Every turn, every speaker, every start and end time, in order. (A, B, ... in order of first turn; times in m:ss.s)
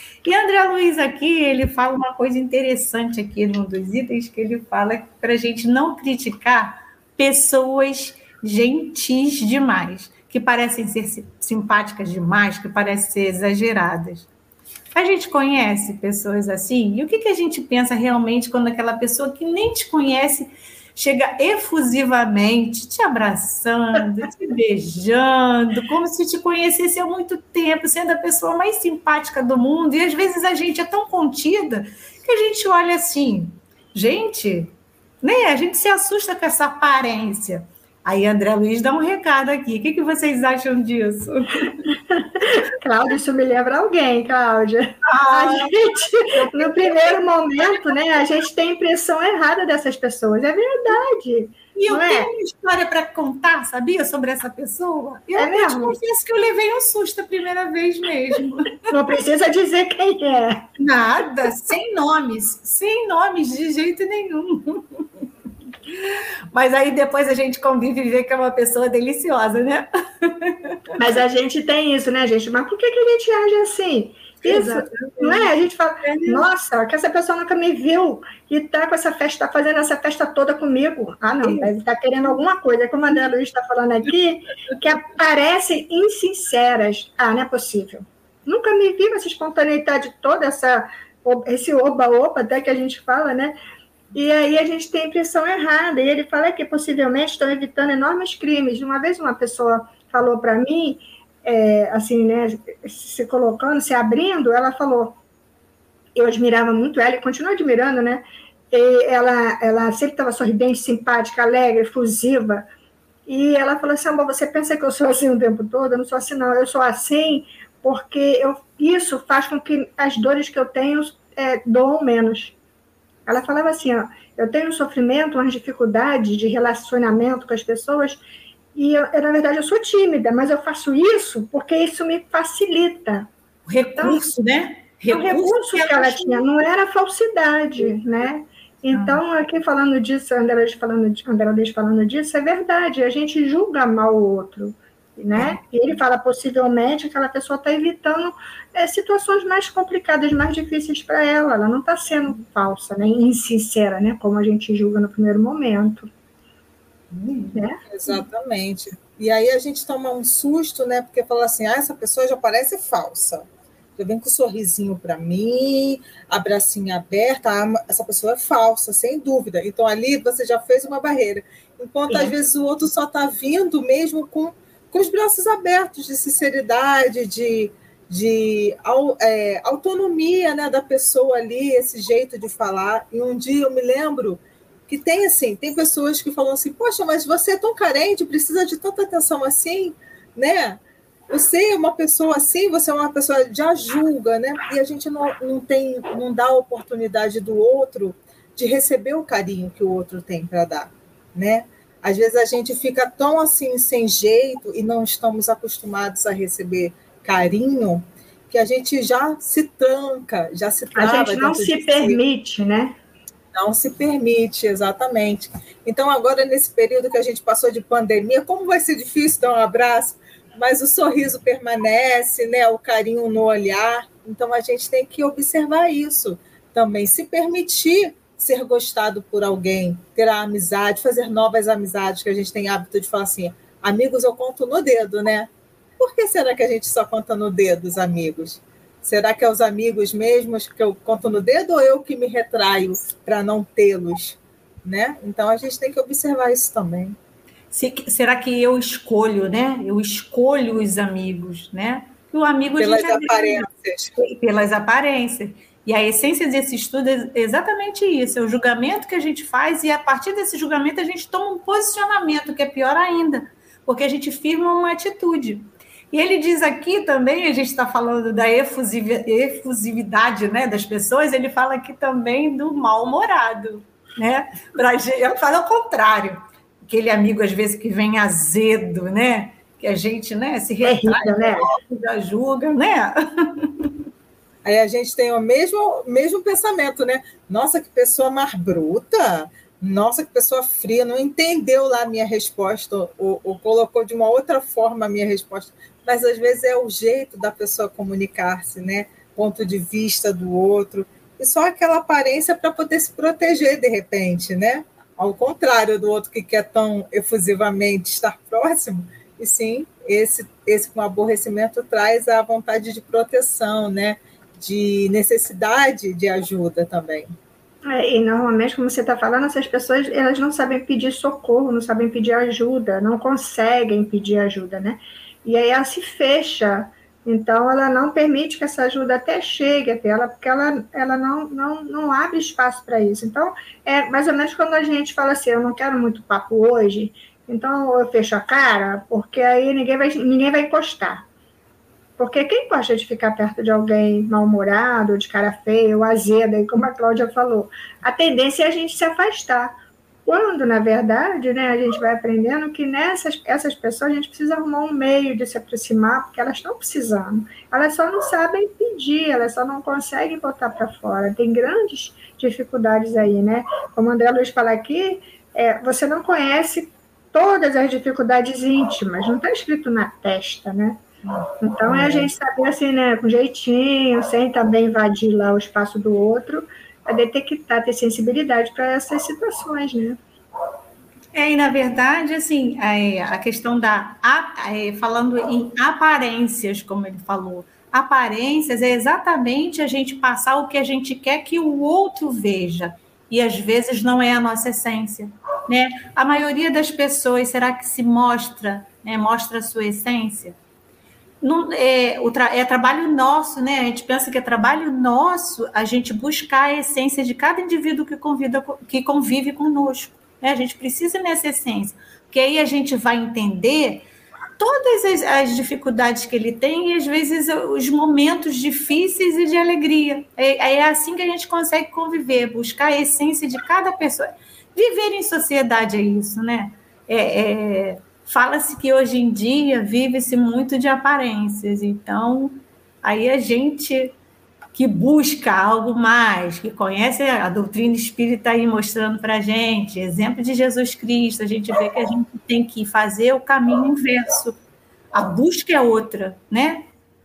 0:00.2-0:14.3 A
0:14.9-0:41.9 A
0:41.9-0:52.3 B
0:45.0-0:47.2 A
0:51.8-0:58.9 A
0:55.4-0:56.0 B
0:58.9-1:00.7 B
1:00.8-1:05.1 A
1:05.9-1:11.0 A
1:11.0-1:33.6 B
1:14.4-1:15.5 A
1:16.0-1:16.5 A
1:21.4-1:21.7 A
1:34.1-1:45.2 B
1:46.2-1:52.6 B
1:53.3-2:02.6 B
2:03.3-2:08.2 B
2:08.8-2:13.3 B
2:13.7-2:16.4 A
2:14.0-2:14.2 B
2:15.1-2:36.1 B
2:18.9-2:19.2 A
2:37.1-2:37.6 A
2:37.6-2:37.8 B
2:37.9-3:32.2 C
3:31.0-3:32.9 B
3:33.6-4:07.2 C
4:07.7-4:43.9 A
4:12.8-4:14.1 C
4:40.8-4:41.7 B
4:44.6-5:17.3 C
5:17.8-5:41.2 B
5:42.2-5:49.7 B
5:50.3-6:11.0 B
6:11.2-6:12.3 A
6:11.6-6:20.2 B
6:21.3-6:40.6 A
6:41.4-6:54.0 A
6:54.6-7:14.2 A
7:14.7-7:24.6 A
7:25.1-7:26.9 A